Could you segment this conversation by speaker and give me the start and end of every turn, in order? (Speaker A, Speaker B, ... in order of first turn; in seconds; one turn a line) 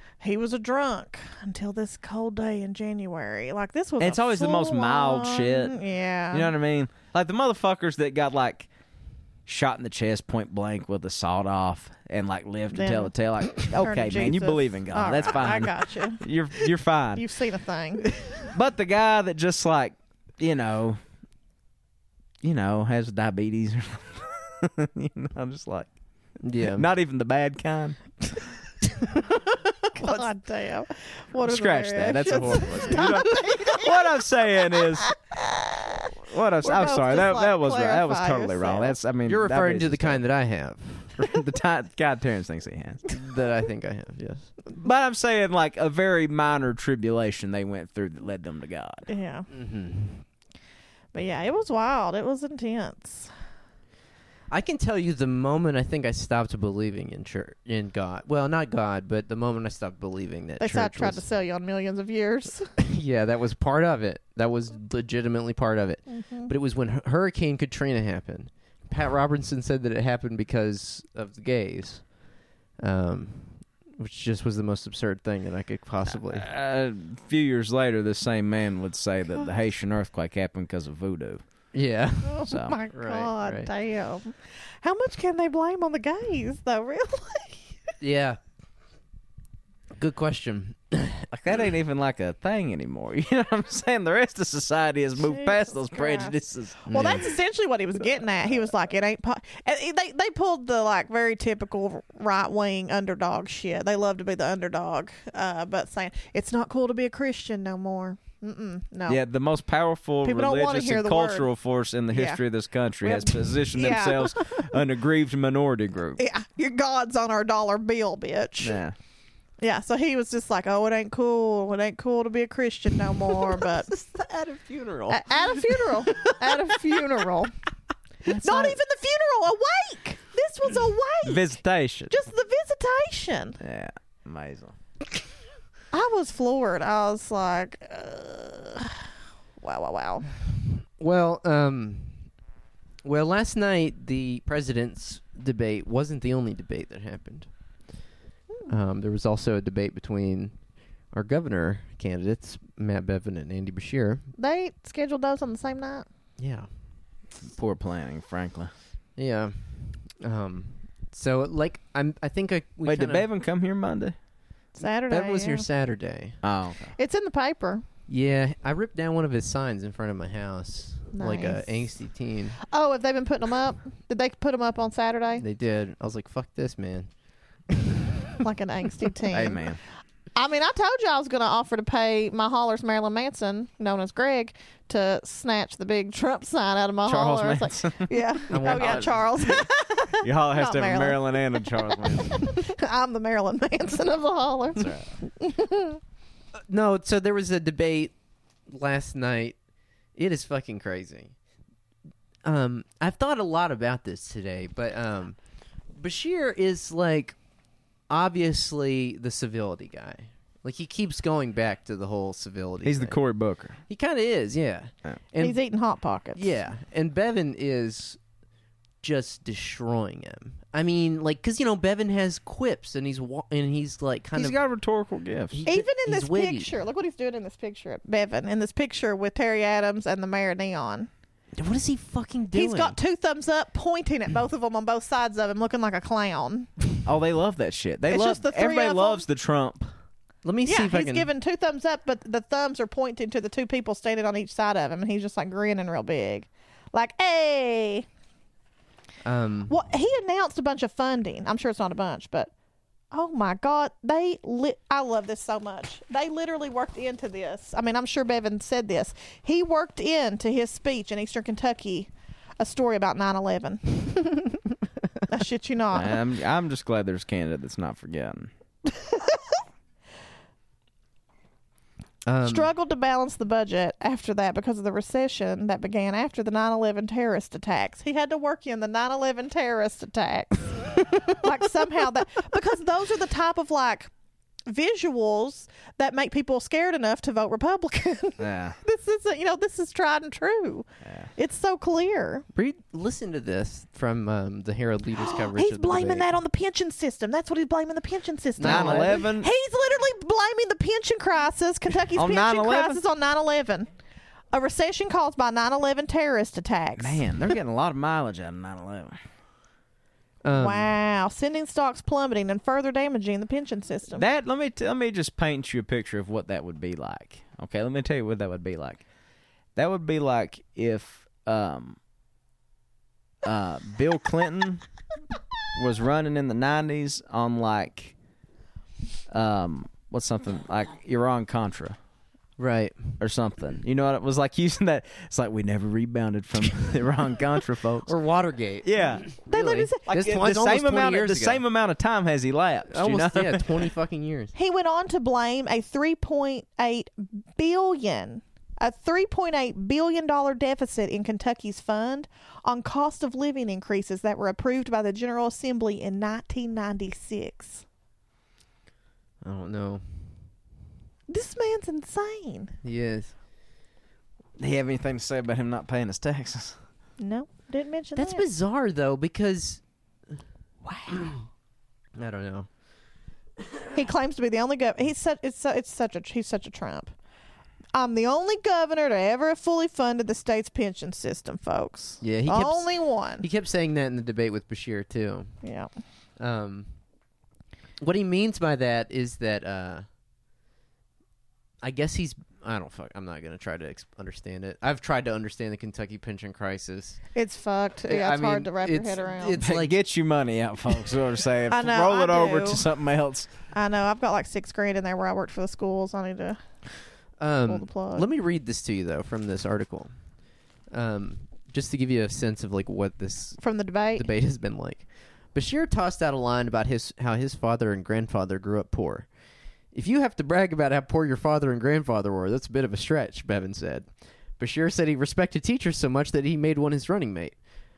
Speaker A: 0.2-6.5
Speaker B: 4.0-5.8
Speaker B: 6.3-8.7
Speaker B: 9.4-17.2
Speaker A: 12.7-16.2
Speaker A: 17.1-18.1
Speaker C: 18.1-18.5
Speaker B: 18.5-21.0
Speaker B: 22.4-25.9
Speaker C: 26.4-26.9
Speaker B: 26.7-28.0
Speaker A: 29.9-34.0
Speaker B: 30.0-30.2
Speaker B: 31.4-35.1
Speaker A: 35.1-39.0
Speaker B: 36.2-40.2
Speaker C: 39.2-41.1
Speaker B: 41.2-43.0
Speaker C: 43.1-44.6
Speaker B: 44.8-49.1
Speaker A: 49.1-49.5
Speaker C: 49.5-50.2
Speaker A: 51.1-53.3
Speaker C: 54.5-61.2
Speaker A: 60.6-62.7
Speaker C: 62.8-72.1
Speaker A: 66.1-66.5
Speaker C: 72.8-76.5
Speaker B: 76.2-81.4
Speaker C: 81.7-83.7
Speaker A: 82.2-87.7
Speaker B: 82.5-82.8
Speaker C: 88.0-88.4
Speaker C: 90.0-91.3
Speaker B: 91.3-97.3
Speaker A: 95.2-96.4
Speaker A: 96.9-109.2
Speaker B: 109.1-116.2
Speaker A: 110.2-111.5
Speaker A: 112.1-112.4
Speaker A: 113.0-114.8
Speaker A: 116.2-118.8
Speaker B: 118.6-119.0
Speaker A: 119.6-123.9
Speaker C: 123.5-127.0
Speaker A: 125.1-127.5
Speaker B: 128.3-128.8
Speaker A: 128.3-133.6
Speaker B: 131.2-132.1
Speaker B: 133.6-134.8
Speaker A: 135.9-140.3
Speaker C: 141.0-142.3
Speaker C: 143.0-147.5
Speaker C: 148.7-150.6
Speaker C: 151.1-154.3
Speaker A: 154.4-156.1
Speaker C: 156.4-156.7
Speaker B: 157.4-158.7
Speaker C: 159.2-163.3
Speaker B: 162.8-164.1
Speaker A: 164.8-165.7
Speaker C: 164.8-166.4
Speaker B: 166.4-166.9
Speaker A: 167.0-167.8
Speaker C: 168.1-172.6
Speaker A: 171.1-172.0
Speaker A: 172.6-175.4
Speaker C: 175.4-177.1
Speaker C: 177.7-178.0
Speaker A: 178.4-179.6
Speaker B: 179.3-179.8
Speaker A: 180.3-196.0
Speaker B: 187.1-189.1
Speaker C: 188.5-189.3
Speaker B: 190.2-192.5
Speaker B: 194.8-195.1
Speaker C: 196.7-198.1
Speaker C: 198.7-199.6
Speaker C: 200.1-201.3
Speaker C: 202.4-205.4
Speaker C: 205.9-207.3
Speaker C: 208.1-213.2
Speaker B: 212.8-213.8
Speaker C: 213.9-215.6
Speaker A: 215.4-216.5
Speaker C: 216.3-218.2
Speaker C: 219.0-224.6
Speaker B: 224.3-225.6
Speaker C: 225.5-226.8
Speaker A: 225.7-231.1
Speaker C: 231.6-233.0
Speaker A: 232.5-236.7
Speaker B: 237.1-239.9
Speaker A: 238.1-239.2
Speaker C: 240.4-241.3
Speaker A: 240.7-248.1
Speaker C: 249.2-249.7
Speaker A: 249.7-252.5
Speaker A: 253.1-264.8
Speaker A: 265.3-266.2
Speaker B: 265.9-268.5
Speaker C: 272.2-272.7
Speaker A: 272.4-284.1
Speaker A: 284.7-292.4
Speaker B: 288.4-288.8
Speaker B: 291.0-291.3
Speaker C: 292.5-296.3
Speaker A: 295.3-303.9
Speaker C: 298.6-299.2
Speaker B: 298.6-299.5
Speaker B: 302.1-303.0
Speaker A: 304.5-307.3
Speaker B: 307.0-309.2
Speaker C: 310.4-310.9
Speaker A: 310.5-314.2
Speaker B: 314.1-319.0
Speaker B: 319.8-322.0
Speaker B: 323.4-324.8
Speaker B: 325.7-328.1
Speaker B: 329.3-332.0
Speaker C: 332.6-333.2
Speaker B: 333.2-338.1
Speaker C: 338.1-341.6
Speaker B: 338.8-339.2
Speaker A: 339.4-340.1
Speaker B: 340.1-343.9
Speaker C: 342.9-344.5
Speaker A: 344.5-357.8
Speaker C: 359.4-360.3
Speaker A: 361.3-362.7
Speaker C: 362.8-363.3
Speaker B: 364.6-366.8
Speaker A: 367.2-368.4
Speaker C: 368.1-369.8
Speaker A: 370.9-371.2
Speaker C: 371.1-371.4
Speaker C: 372.1-372.7
Speaker A: 373.9-377.1
Speaker A: 377.9-383.4
Speaker C: 382.2-385.5
Speaker A: 385.6-385.9
Speaker C: 386.4-386.9
Speaker C: 388.0-390.1
Speaker C: 391.8-397.2
Speaker A: 397.3-399.6
Speaker C: 398.1-399.9
Speaker B: 399.6-403.5
Speaker A: 401.7-402.8
Speaker A: 403.7-406.6
Speaker C: 407.4-410.1
Speaker A: 407.7-408.3
Speaker C: 410.9-413.6
Speaker A: 413.6-414.3
Speaker C: 414.1-419.3
Speaker C: 419.9-424.1
Speaker C: 424.6-427.6